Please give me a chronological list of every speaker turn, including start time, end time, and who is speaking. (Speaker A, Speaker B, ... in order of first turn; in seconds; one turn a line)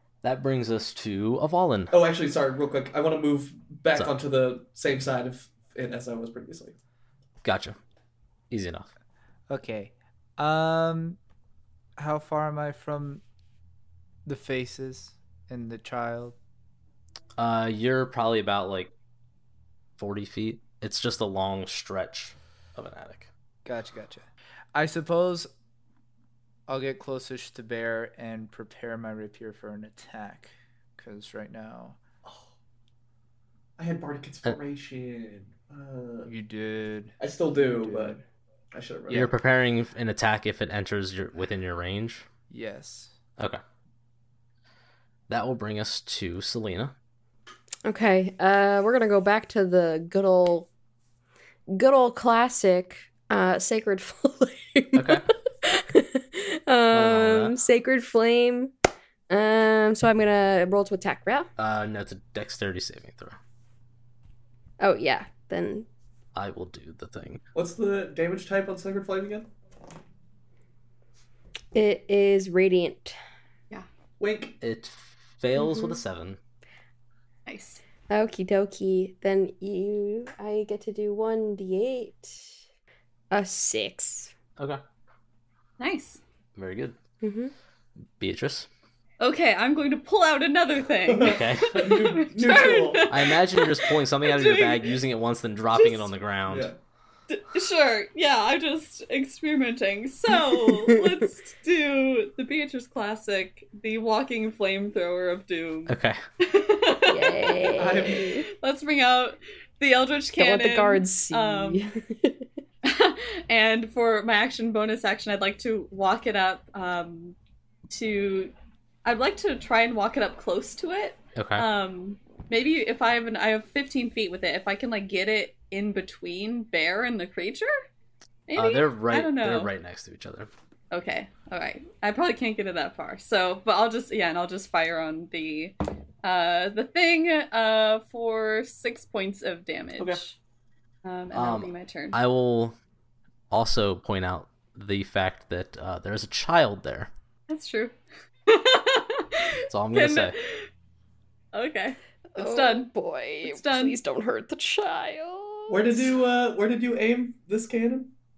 Speaker A: 0.2-1.9
Speaker B: 1.9-6.8
Speaker A: 7.4-7.8
Speaker A: 8.5-8.9
Speaker C: 9.5-11.2
Speaker C: 12.0-13.2
Speaker C: 14.3-16.4
Speaker A: 17.4-18.9
Speaker A: 20.0-23.3
Speaker C: 23.6-25.5
Speaker C: 26.7-32.0
Speaker B: 32.2-32.5
Speaker B: 33.8-36.3
Speaker C: 36.3-38.2
Speaker B: 37.2-38.2
Speaker B: 38.7-39.3
Speaker A: 39.1-42.3
Speaker C: 42.5-43.1
Speaker A: 45.3-46.9
Speaker D: 47.9-50.7
Speaker D: 51.7-58.7
Speaker A: 55.0-55.2
Speaker A: 56.9-57.6
Speaker D: 59.3-61.5
Speaker A: 61.6-63.4
Speaker D: 64.8-65.9
Speaker A: 66.3-67.4
Speaker B: 67.5-69.5
Speaker D: 71.7-73.2
Speaker B: 74.2-74.6
Speaker A: 74.6-76.4
Speaker D: 75.6-76.0
Speaker E: 77.5-77.8
Speaker D: 78.1-82.5
Speaker D: 83.3-84.3
Speaker E: 85.8-86.2
Speaker A: 86.5-87.0
Speaker D: 87.2-87.5
Speaker A: 88.2-88.7
Speaker E: 89.2-95.0
Speaker B: 91.1-93.2
Speaker A: 91.2-91.9
Speaker A: 93.1-96.7
Speaker E: 95.8-96.1
Speaker B: 96.5-96.8
Speaker E: 97.3-111.8
Speaker D: 100.5-101.2
Speaker A: 105.9-106.2
Speaker D: 107.1-108.4
Speaker B: 107.8-108.3
Speaker D: 110.4-112.4
Speaker E: 112.8-117.3
Speaker E: 117.9-118.5
Speaker E: 119.0-127.7
Speaker A: 121.4-121.7
Speaker E: 128.5-129.7
Speaker A: 128.6-130.5
Speaker E: 130.9-140.4
Speaker E: 141.0-142.2
Speaker A: 141.3-142.8
Speaker A: 143.5-147.1
Speaker E: 147.5-150.7
Speaker A: 149.7-150.3
Speaker E: 151.5-152.9
Speaker D: 152.3-156.2
Speaker E: 153.4-154.0
Speaker B: 155.7-158.1